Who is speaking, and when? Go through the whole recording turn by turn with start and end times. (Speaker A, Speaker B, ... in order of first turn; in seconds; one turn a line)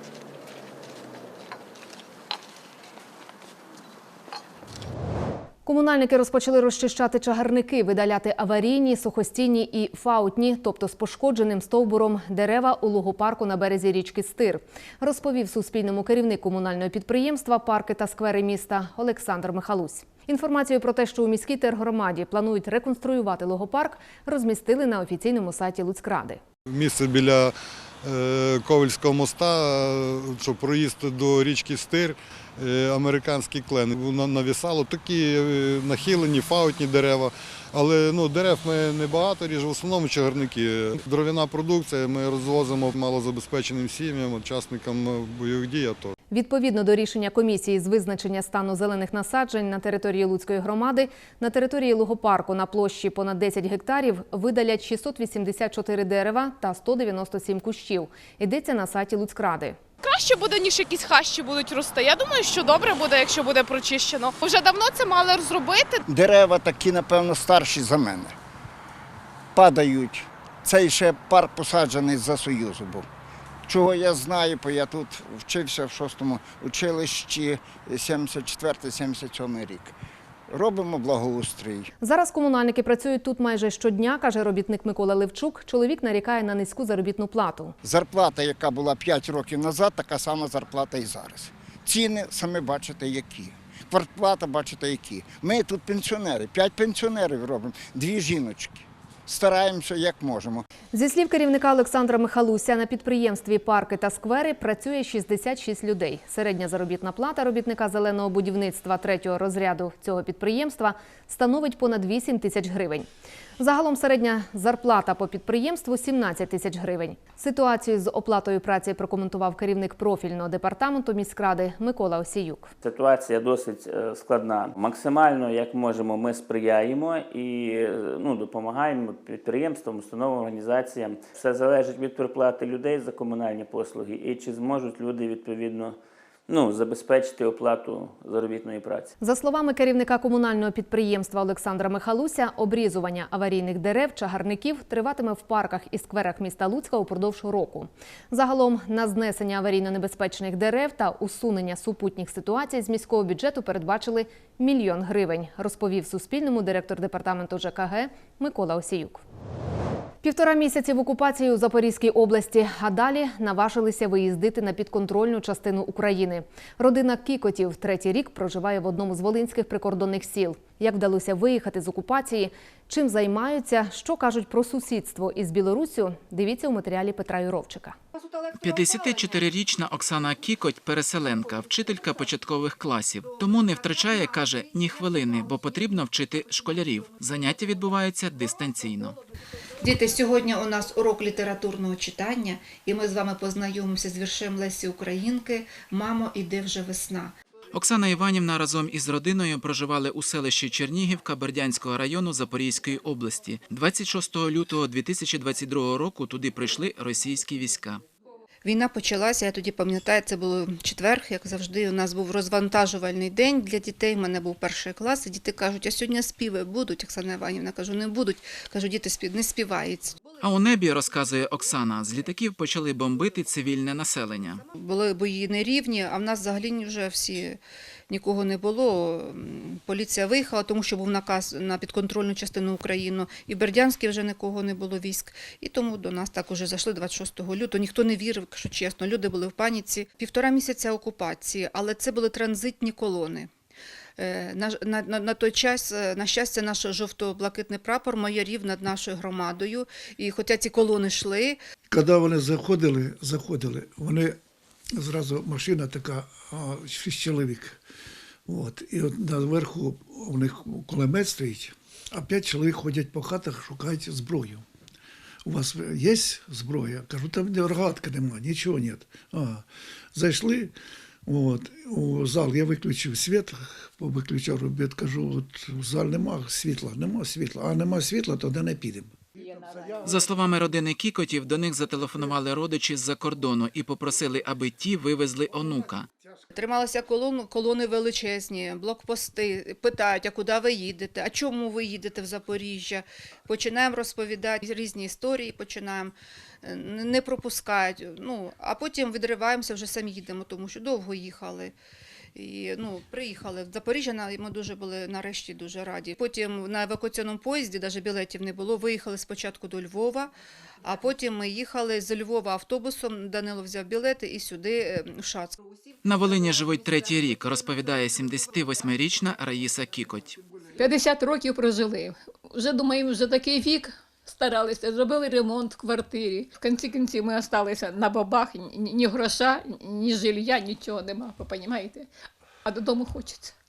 Speaker A: 5.6-26.4
Speaker B: 26.7-46.1
Speaker A: 46.3-59.8
Speaker C: 60.0-66.0
Speaker D: 66.1-68.3
Speaker D: 69.5-73.0
Speaker D: 73.7-79.9
Speaker D: 80.5-81.9
Speaker A: 82.0-87.8
Speaker D: 87.8-100.7
Speaker A: 100.9-113.1
Speaker A: 113.6-122.7
Speaker E: 122.8-139.1
Speaker A: 139.2-159.2
Speaker A: 160.2-177.9
Speaker F: 178.5-189.2
Speaker G: 189.8-197.3
Speaker F: 197.7-208.0
Speaker G: 208.6-220.2
Speaker F: 220.4-224.6
Speaker G: 224.7-243.5
Speaker G: 244.2-251.6
Speaker H: 251.9-254.4
Speaker H: 255.0-257.8
Speaker H: 258.5-264.6
Speaker H: 265.4-270.7
Speaker H: 271.2-280.1
Speaker F: 280.0-286.1
Speaker G: 286.5-301.7
Speaker G: 302.3-315.6
Speaker F: 316.0-320.4
Speaker I: 320.7-332.1
Speaker I: 332.6-333.5